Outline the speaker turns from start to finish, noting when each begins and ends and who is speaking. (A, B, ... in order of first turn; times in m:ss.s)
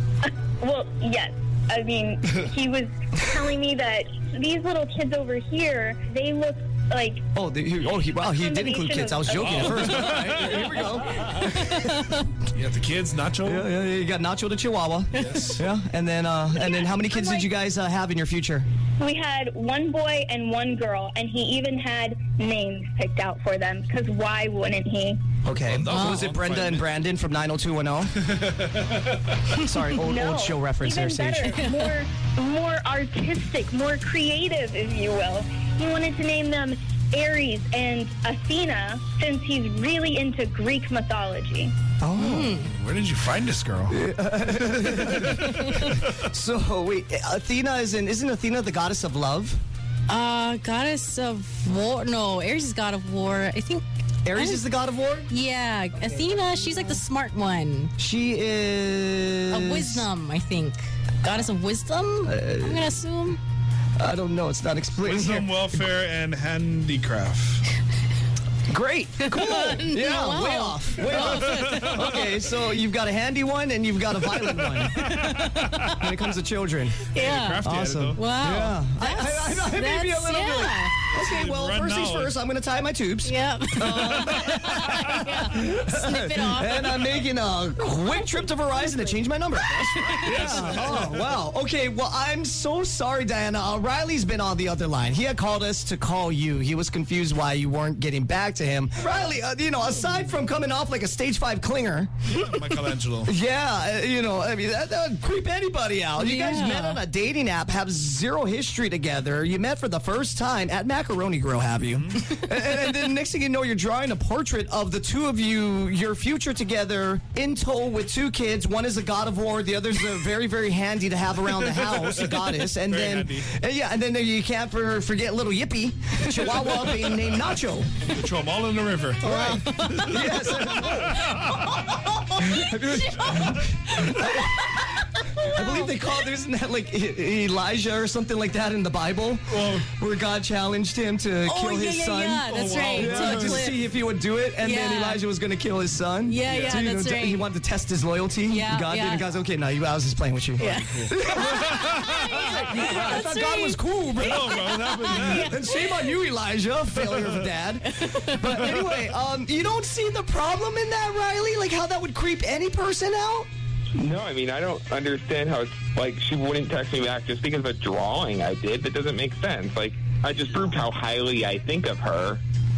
0:00.2-0:07.2 A
0:07.3-0:12.0 B
0:08.2-0:10.0 A
0:09.3-0:11.5 C
0:12.5-0:13.7 C
0:13.4-0:18.6 B
0:15.1-0:15.6 C
0:16.5-0:17.5 A
0:19.0-0:25.2 A
0:25.4-0:28.1 B
0:25.6-0:26.9 C
0:25.9-0:26.3 D
0:28.2-0:29.0 C
0:29.6-0:31.6 B
0:30.0-0:41.7 A
0:42.0-0:42.6 B
0:42.2-0:42.7 D
0:42.6-0:44.0 C
0:43.9-0:49.6 B
0:44.6-0:46.2 C
0:45.5-0:45.8 D
0:50.1-0:53.8 D
0:54.2-0:55.3 B
0:54.3-0:54.6 D
0:55.3-0:57.9 D
0:58.0-1:00.1 B
0:59.5-1:03.4 D
1:02.2-1:02.8 B
1:04.0-1:05.7 B
1:05.0-1:07.6 C
1:08.7-1:15.0 B
1:09.2-1:12.2 D
1:11.2-1:12.5 C
1:14.7-1:15.7 C
1:14.9-1:16.1 D
1:15.9-1:17.0 B
1:17.1-1:21.0 D
1:17.1-1:18.2 C
1:17.6-1:42.1 B
1:21.1-1:22.3 C
1:23.2-1:27.2 D
1:23.9-1:25.0 C
1:28.1-1:29.1 D
1:29.7-1:31.4 C
1:29.8-1:30.9 D
1:42.3-1:43.3 C
1:43.2-2:07.9 B
1:46.2-1:47.0 D
2:01.6-2:03.5 C
2:08.0-2:11.6 C
2:09.2-2:10.4 D
2:09.3-2:11.3 B
2:11.3-2:16.0 D
2:12.3-2:14.9 B
2:15.4-2:43.5 B
2:19.5-2:19.9 C
2:21.4-2:23.9 D
2:22.4-2:23.6 C
2:24.6-2:25.2 D
2:26.3-2:27.5 D
2:26.5-2:26.8 C
2:28.5-2:29.3 D
2:30.6-2:32.9 C
2:30.6-2:36.2 D
2:34.2-2:35.5 C
2:37.0-2:37.5 C
2:38.0-2:38.8 D
2:44.0-2:52.4 E